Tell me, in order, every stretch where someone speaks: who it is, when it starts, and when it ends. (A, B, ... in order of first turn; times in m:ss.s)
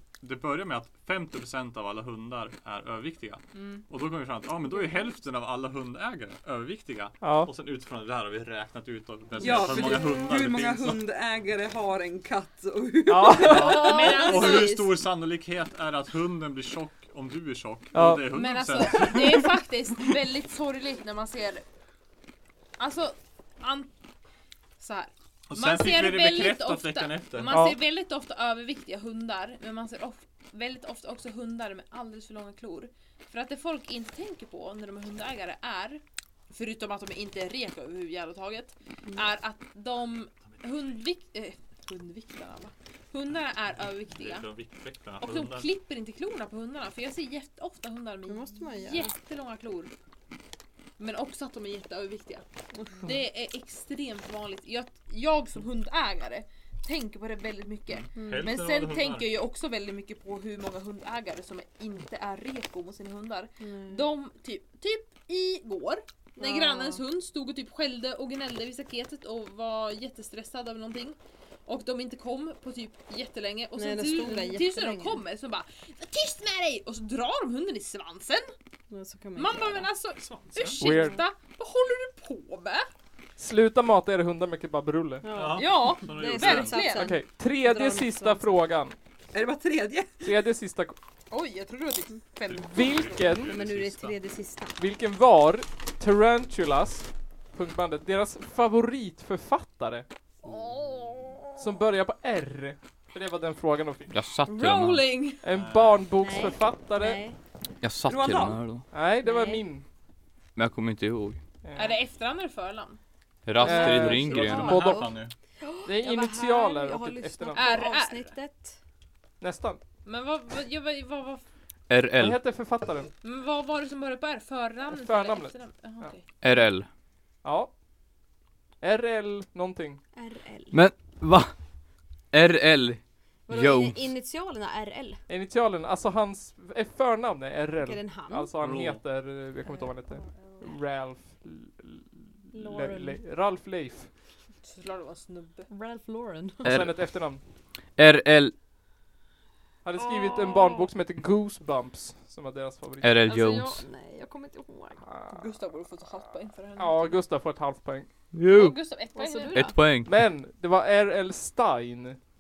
0:00.2-0:11.0 A
0:03.5-0:03.8 B
0:07.2-0:07.5 C
0:09.4-0:14.0 D
0:13.1-0:13.9 C
0:13.4-0:19.6 A
0:13.5-0:15.0 E
0:13.6-0:14.8 B
0:17.9-0:18.2 C
0:18.3-0:21.6 B
0:22.8-0:23.9 B
0:24.8-0:44.5 B
0:25.5-0:27.6 A
0:27.5-0:27.8 C
0:44.1-0:45.7 A
0:45.2-0:49.9 B
0:48.2-0:49.1 E
0:51.0-0:52.4 B
0:52.7-0:53.1 E
0:53.0-1:18.5 B
0:57.9-0:59.3 A
0:58.1-0:58.5 E
1:03.6-1:04.1 E
1:06.4-1:07.0 E
1:13.7-1:15.2 E
1:18.9-1:19.9 E
1:19.4-1:22.9 B
1:20.2-1:20.8 A
1:20.8-1:21.2 C
1:23.4-1:25.3 C
1:25.2-1:28.6 E
1:25.3-1:26.9 A
1:25.5-1:27.2 B
1:26.9-1:29.0 C
1:29.3-1:30.2 D
1:30.2-1:31.0 C
1:31.3-1:33.4 B
1:32.5-1:34.2 A
1:32.6-1:33.5 C
1:33.5-1:34.8 E
1:34.8-1:40.0 C
1:40.5-1:41.4 E
1:41.6-1:44.1 C
1:44.1-1:45.1 F
1:44.4-1:45.4 B
1:45.4-1:47.2 C
1:45.5-1:46.0 A
1:46.2-1:47.4 E
1:47.8-1:48.8 F
1:48.0-1:48.6 D
1:48.9-1:49.8 C
1:49.2-1:49.6 E
1:50.6-1:51.4 F
1:51.6-1:52.0 C
1:51.7-1:53.0 B
1:53.4-1:54.9 F
1:53.6-1:55.1 C
1:53.6-1:58.8 E
1:54.0-1:55.3 A
1:55.8-1:57.8 C
1:57.5-1:58.3 B
1:59.4-1:59.8 C
2:00.0-2:01.4 B
2:01.9-2:02.4 F
2:02.2-2:03.1 C
2:03.2-2:06.2 B
2:04.9-2:06.1 C
2:06.4-2:06.9 F
2:07.4-2:07.7 C
2:08.8-2:10.0 C
2:10.1-2:10.8 E
2:10.7-2:11.5 F
2:12.3-2:14.0 F
2:13.5-2:15.2 E
2:15.3-2:24.1 C
2:17.8-2:18.5 E
2:18.6-2:19.0 A
2:19.6-2:20.7 E
2:22.5-2:23.2 E
2:24.6-2:25.7 B
2:25.7-2:26.7 E
2:26.6-2:27.4 C
2:26.6-2:27.0 F
2:28.0-2:28.5 F
2:29.8-2:33.2 C
2:30.2-2:30.6 E
2:33.0-2:33.8 F
2:33.2-2:35.0 E
2:35.0-2:35.5 C
2:35.3-2:37.2 B
2:36.8-2:38.1 C
2:38.3-2:38.8 F
2:38.5-2:39.7 B
2:39.1-2:39.8 E
2:39.5-2:40.1 F
2:40.0-2:42.2 C